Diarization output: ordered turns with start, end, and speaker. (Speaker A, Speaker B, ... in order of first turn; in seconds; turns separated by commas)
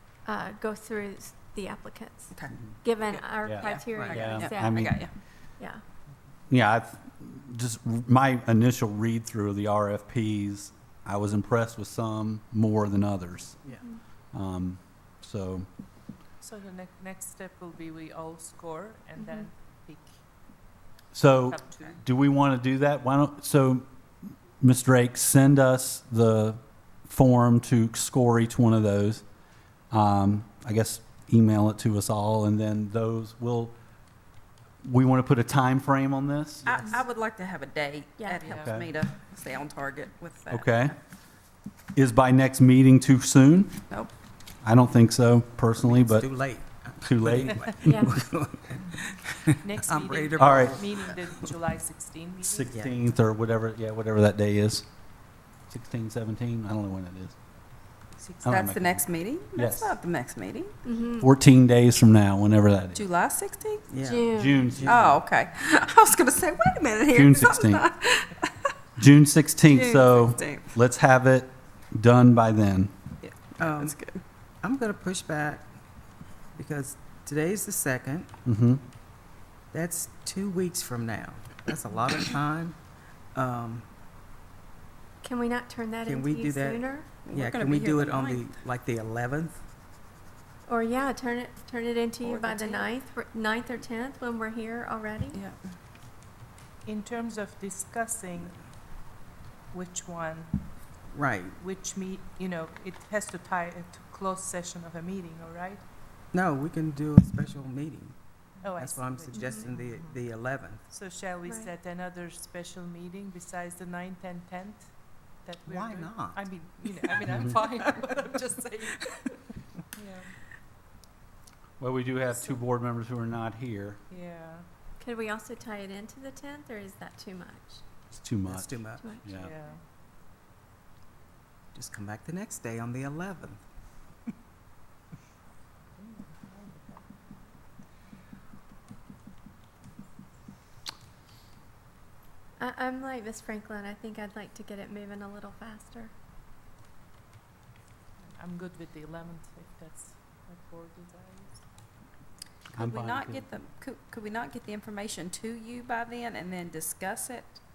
Speaker A: 0.2-5.1, Speaker B: 3.0-5.1, Speaker C: 3.4-5.1, Speaker C: 6.5-13.6, Speaker C: 14.3-15.7, Speaker D: 16.4-20.2, Speaker A: 19.2-19.5, Speaker C: 21.1-23.8, Speaker D: 21.3-22.0, Speaker C: 24.6-29.2, Speaker C: 29.9-33.7, Speaker C: 34.8-36.8, Speaker B: 36.6-40.7, Speaker E: 36.7-37.0, Speaker A: 38.2-38.4, Speaker C: 38.5-38.9, Speaker C: 40.5-41.0, Speaker C: 42.0-43.8, Speaker C: 44.6-46.3, Speaker E: 45.8-51.5, Speaker C: 47.0-48.0, Speaker A: 47.8-48.1, Speaker D: 49.6-52.8, Speaker C: 50.4-50.8, Speaker C: 52.4-54.9, Speaker E: 52.7-53.0, Speaker C: 55.7-57.3, Speaker D: 58.2-58.6, Speaker C: 58.4-59.0, Speaker B: 58.5-60.8, Speaker C: 59.5-59.9, Speaker A: 60.8-61.3, Speaker C: 61.2-63.0, Speaker B: 62.9-63.9, Speaker E: 63.9-65.2, Speaker A: 64.0-64.6, Speaker C: 64.3-65.1, Speaker B: 64.8-68.4, Speaker C: 67.1-67.9, Speaker C: 69.0-72.9, Speaker B: 69.7-70.7, Speaker B: 73.2-74.2, Speaker E: 73.5-74.0, Speaker E: 74.6-75.7, Speaker E: 76.5-78.3, Speaker C: 78.4-78.8, Speaker E: 79.7-82.8, Speaker E: 83.3-83.8, Speaker A: 85.2-87.1, Speaker E: 86.0-89.6, Speaker B: 87.2-88.5, Speaker A: 90.7-95.4, Speaker B: 92.2-92.9, Speaker D: 96.9-98.6, Speaker D: 99.7-100.5, Speaker E: 101.1-101.6, Speaker D: 101.6-105.8, Speaker E: 106.3-108.2, Speaker D: 108.6-110.0, Speaker E: 108.8-110.9, Speaker A: 109.3-109.6, Speaker D: 110.9-114.9, Speaker D: 115.4-119.4, Speaker E: 115.6-117.2, Speaker E: 117.8-118.3, Speaker D: 119.9-120.3, Speaker C: 121.8-124.0, Speaker D: 124.1-124.6, Speaker A: 125.0-127.8, Speaker C: 128.1-129.5, Speaker E: 128.5-129.2, Speaker A: 129.0-129.3, Speaker D: 129.3-129.8, Speaker E: 131.7-133.6, Speaker D: 136.0-137.0, Speaker A: 142.6-146.1, Speaker D: 148.3-151.6, Speaker B: 152.7-157.6, Speaker C: 152.8-153.4